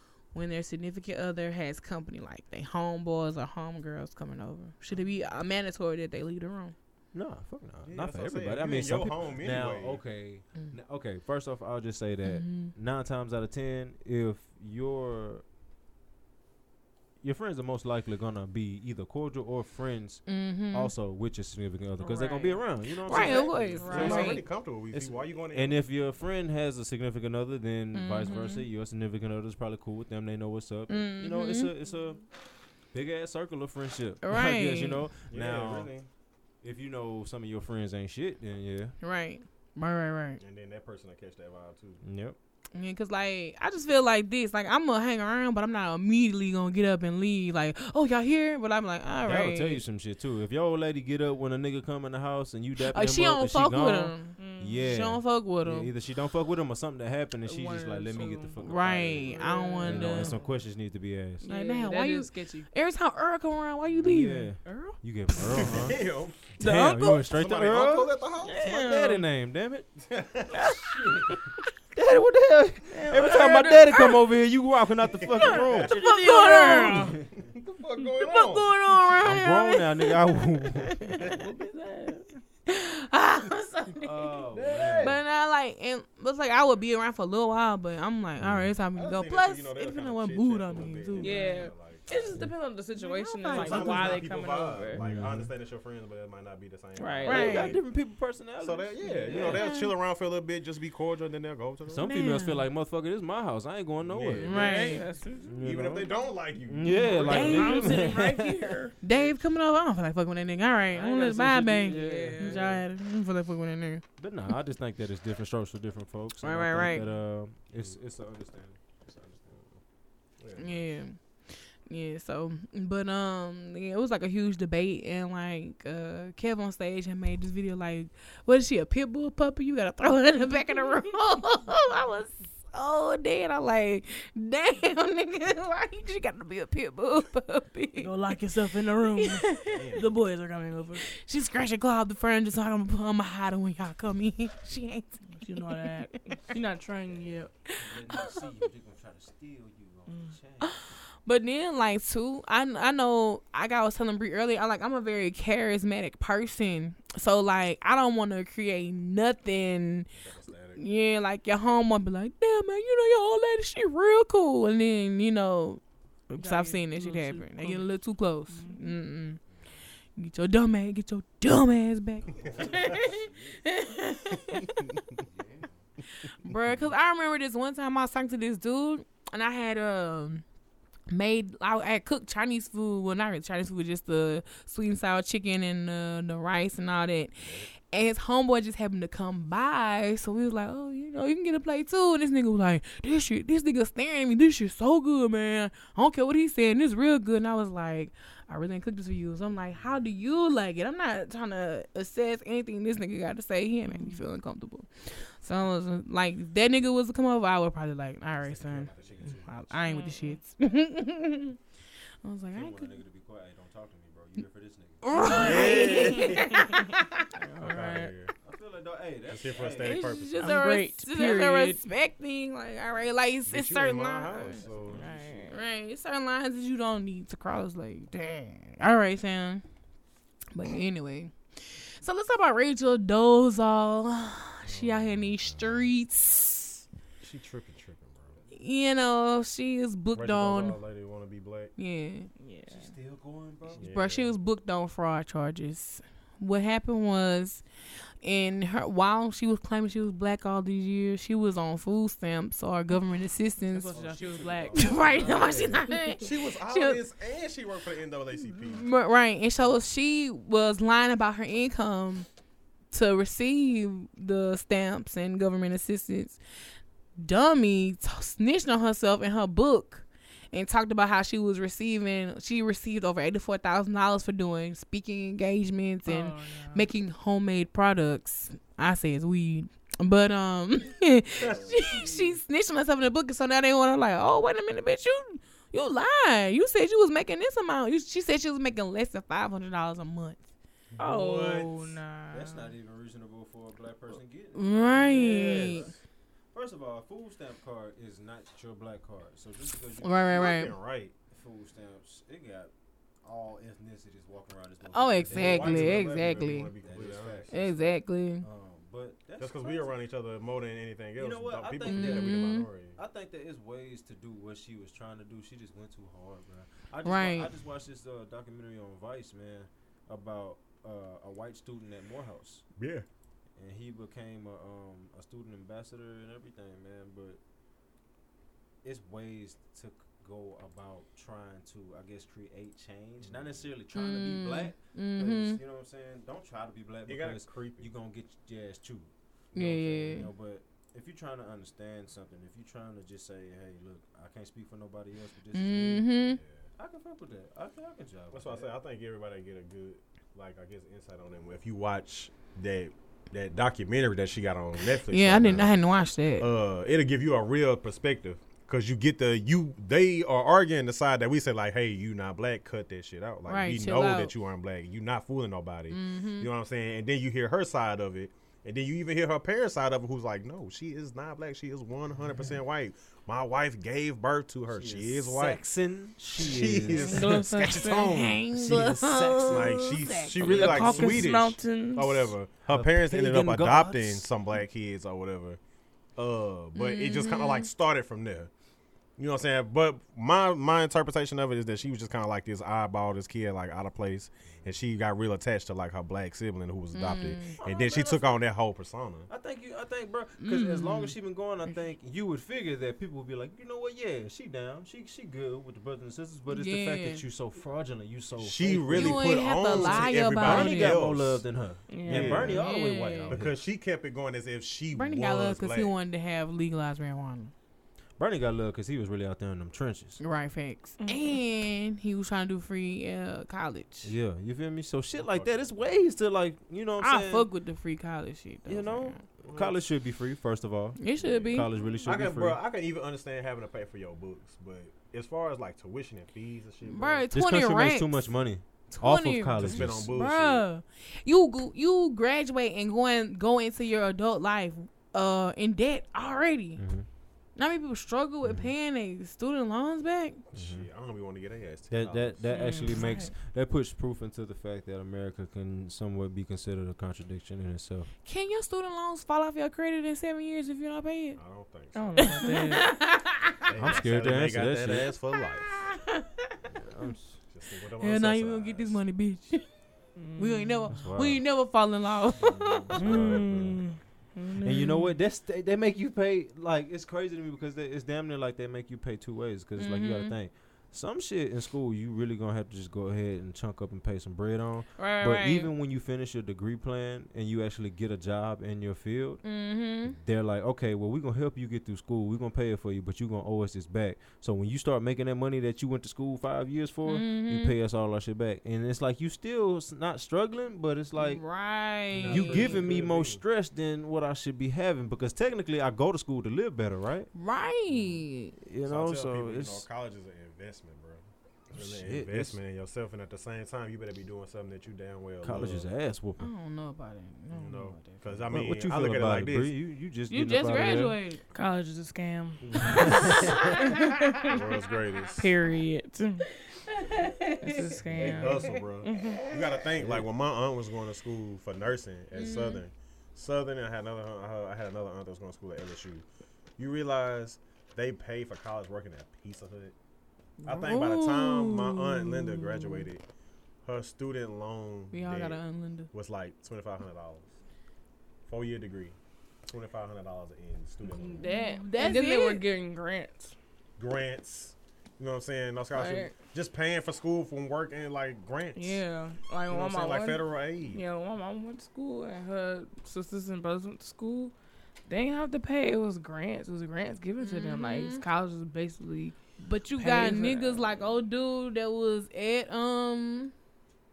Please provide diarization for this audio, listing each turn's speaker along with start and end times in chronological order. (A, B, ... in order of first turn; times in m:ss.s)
0:00.3-0:06.7 A
0:07.1-0:15.4 B
0:07.8-0:10.0 C
0:12.2-0:12.7 A
0:17.2-0:32.2 B
0:20.3-0:20.9 A
0:22.0-0:22.6 D
0:23.0-0:24.4 A
0:23.1-0:25.8 C
0:23.8-0:24.4 D
0:27.9-0:28.6 A
0:30.9-0:31.7 A
0:32.9-0:35.9 B
0:34.2-0:35.0 A
0:35.3-0:36.1 C
0:36.6-0:39.0 B
0:39.0-0:40.4 A
0:40.4-0:42.0 C
0:42.0-0:42.4 B
0:42.7-0:49.8 A
0:49.2-1:01.4 B
0:52.8-0:55.9 A
0:54.4-0:54.9 D
0:57.4-0:58.6 D
0:58.6-1:00.4 A
0:59.2-1:00.5 D
1:01.4-1:02.7 D
1:01.4-1:04.5 A
1:03.9-1:06.0 B
1:04.6-1:05.0 D
1:05.5-1:06.4 C
1:06.6-1:07.2 D
1:06.6-1:09.9 B
1:07.2-1:08.6 C
1:08.4-1:09.2 D
1:10.0-1:11.4 C
1:10.5-1:10.9 D
1:10.9-1:11.2 B
1:11.9-1:16.0 B
1:12.9-1:14.2 D
1:15.0-1:15.9 C
1:15.4-1:17.1 D
1:15.4-1:17.2 A
1:16.9-1:17.3 B
1:17.3-1:18.7 C
1:18.2-1:21.4 A
1:19.2-1:21.4 B
1:21.2-1:22.4 D
1:22.7-1:24.4 A
1:24.0-1:25.2 B
1:24.5-1:25.1 D
1:25.0-1:31.6 A
1:28.4-1:28.7 B
1:28.9-1:32.4 C
1:31.2-1:35.0 D
1:33.0-1:34.2 A
1:33.5-1:37.8 C
1:34.9-1:35.5 B
1:37.0-1:37.7 D
1:37.2-1:37.8 A
1:37.2-1:39.6 B
1:38.6-1:42.1 C
1:39.1-1:39.9 A
1:41.9-1:46.1 B
1:42.0-1:42.6 A
1:44.0-1:48.0 C
1:44.4-1:45.0 A
1:44.5-1:45.5 D
1:46.7-1:49.2 B
1:47.0-1:48.9 D
1:47.2-1:48.0 A
1:49.0-1:54.0 A
1:50.9-1:52.8 B
1:51.8-1:52.6 D
1:54.2-1:59.8 B
1:56.4-1:57.0 A
2:00.4-2:00.8 C
2:00.6-2:01.2 A
2:01.9-2:18.1 A
2:18.0-2:21.1 D
2:19.2-2:19.8 A
2:19.6-2:20.1 C
2:21.1-2:26.4 A
2:25.4-2:27.5 D
2:27.1-2:30.8 B
2:27.7-2:28.5 A
2:30.1-2:30.3 D
2:30.6-2:40.1 A
2:40.2-2:40.8 C
2:40.8-2:49.4 A
2:46.4-2:47.9 D
2:48.5-2:48.9 D
2:50.2-2:55.0 A
2:52.2-2:53.7 B
2:52.4-2:53.0 C
2:54.5-2:55.0 C
2:55.1-2:55.8 B
2:56.2-3:00.4 A
3:01.1-3:31.6 A
3:07.4-3:07.7 C
3:23.9-3:24.2 D
3:28.4-3:29.8 C
3:28.9-3:29.4 B
3:29.8-3:30.4 D
3:32.2-3:33.0 A
3:32.5-3:36.1 B
3:35.0-3:37.3 A
3:35.3-3:36.7 C
3:35.4-3:36.8 D
3:37.3-3:38.1 D
3:37.6-3:38.3 C
3:38.4-3:40.1 B
3:39.3-3:40.5 C
3:39.8-3:44.6 A
3:40.4-3:41.8 D
3:43.5-3:45.1 C
3:44.5-3:45.5 B
3:44.9-3:45.6 D
3:45.5-3:49.6 A
3:50.5-3:51.3 A
3:52.0-3:56.8 A
3:54.7-3:55.8 C
3:57.2-3:58.4 C
3:58.5-4:00.8 A
4:00.1-4:01.7 C
4:01.8-4:02.3 A
4:02.4-4:02.9 D
4:02.7-4:03.9 B
4:03.8-4:04.3 C
4:03.8-4:07.6 A
4:08.2-4:14.0 A
4:13.7-4:15.7 D
4:13.9-4:15.9 B
4:14.7-4:17.0 A
4:16.2-4:18.8 C
4:18.5-4:22.3 A
4:22.9-4:26.4 A
4:27.2-4:50.5 A
4:36.0-4:36.9 D
4:41.4-4:41.9 C
4:41.4-4:42.4 B
4:50.9-4:51.9 C
4:51.0-4:52.7 D
4:52.3-4:55.9 B
4:54.5-4:55.9 A
4:55.2-4:55.9 C
4:56.5-5:00.5 B
5:00.0-5:00.7 A
5:00.3-5:01.1 C
5:01.3-5:02.7 B
5:03.2-5:09.9 B
5:04.9-5:06.7 A
5:05.2-5:07.6 C
5:07.5-5:08.4 A
5:09.4-5:13.0 C
5:11.2-5:12.4 B
5:11.8-5:12.7 A
5:13.0-5:22.6 B
5:17.0-5:17.5 A
5:22.8-5:23.0 C
5:23.6-5:27.4 B
5:28.8-5:46.1 B
5:33.2-5:33.7 C
5:33.9-5:35.6 A
5:37.0-5:37.9 C
5:39.5-5:40.3 A
5:45.5-5:46.4 A
5:46.4-5:46.7 C
5:46.8-5:48.7 B
5:48.3-5:55.7 C
5:55.0-5:56.5 A
5:56.4-6:15.6 C
6:03.5-6:04.3 A
6:05.9-6:06.5 A
6:14.7-6:17.3 B
6:16.3-6:25.6 C
6:16.9-6:18.2 D
6:16.9-6:17.2 A
6:17.9-6:20.7 A
6:18.6-6:19.7 B
6:20.4-6:22.3 D
6:20.4-6:21.4 B
6:22.6-6:24.3 B
6:26.2-6:28.5 C
6:26.7-6:27.7 A
6:29.2-6:39.3 C
6:36.9-6:37.6 A
6:37.6-6:38.4 B
6:39.3-6:53.6 B
6:40.4-6:41.1 A
6:46.5-6:47.2 A
6:48.4-6:51.4 C
6:48.9-6:51.0 A
6:51.9-6:52.6 D
6:52.0-6:52.7 C
6:52.3-6:53.4 A
6:53.3-6:55.9 C
6:54.9-6:57.5 A
6:58.2-7:00.2 B
7:00.2-7:04.1 A
7:04.0-7:07.5 B
7:05.1-7:06.0 C
7:07.0-7:09.2 A
7:08.6-7:12.6 B
7:09.4-7:09.8 C
7:11.0-7:11.7 A
7:11.2-7:17.3 C
7:16.8-7:18.2 A
7:17.3-7:20.1 B
7:18.9-7:26.8 A
7:19.6-7:20.6 C
7:26.8-7:27.1 B
7:27.6-7:30.4 A
7:30.5-7:32.4 C
7:30.6-7:30.8 B
7:31.9-7:38.1 B
7:32.5-7:33.2 D
7:32.9-7:33.3 A
7:38.2-7:41.4 A
7:41.4-7:42.3 C
7:41.9-7:43.0 D
7:42.2-7:43.6 A
7:43.6-7:45.8 C
7:43.7-7:45.1 B
7:45.9-7:46.2 A
7:46.7-7:47.4 B
7:47.5-7:49.0 C
7:48.0-7:49.6 A
7:50.2-7:50.9 D
7:50.4-7:53.3 A
7:50.9-7:51.4 B
7:52.4-7:53.8 B
7:53.0-7:55.2 D
7:53.0-7:53.8 C
7:54.6-8:09.4 B
7:59.8-8:00.3 A
8:05.0-8:05.7 A
8:09.4-8:10.2 A
8:10.1-8:21.4 B
8:17.0-8:17.8 A
8:21.2-8:22.8 A
8:22.1-8:23.4 C
8:22.2-8:27.3 B
8:27.3-8:28.5 A
8:28.6-8:29.8 B
8:28.8-8:35.9 C
8:31.7-8:32.6 B
8:35.4-8:36.5 B
8:36.4-8:38.4 A
8:37.5-8:39.7 C
8:38.5-8:41.2 B
8:40.3-8:41.4 A
8:41.5-8:44.6 D
8:42.6-8:43.8 B
8:44.4-8:45.5 C
8:45.3-8:46.4 D
8:46.9-8:49.5 A
8:47.6-8:49.4 D
8:48.1-8:56.2 C
8:48.1-8:48.4 B
8:50.0-8:50.2 B
8:52.3-8:52.8 A
8:56.8-8:59.9 C
9:00.6-9:03.0 A
9:00.6-9:03.2 C
9:03.8-9:05.6 C
9:05.1-9:06.1 A
9:06.1-9:07.5 C
9:08.5-9:09.1 C
9:09.7-9:11.4 C
9:11.1-9:13.5 D
9:11.4-9:12.6 A
9:14.0-9:19.0 C
9:15.9-9:16.3 D
9:18.8-9:24.5 D
9:19.7-9:21.0 C
9:25.1-9:29.3 D
9:27.4-9:28.2 A
9:29.4-9:33.5 A
9:30.0-9:30.8 D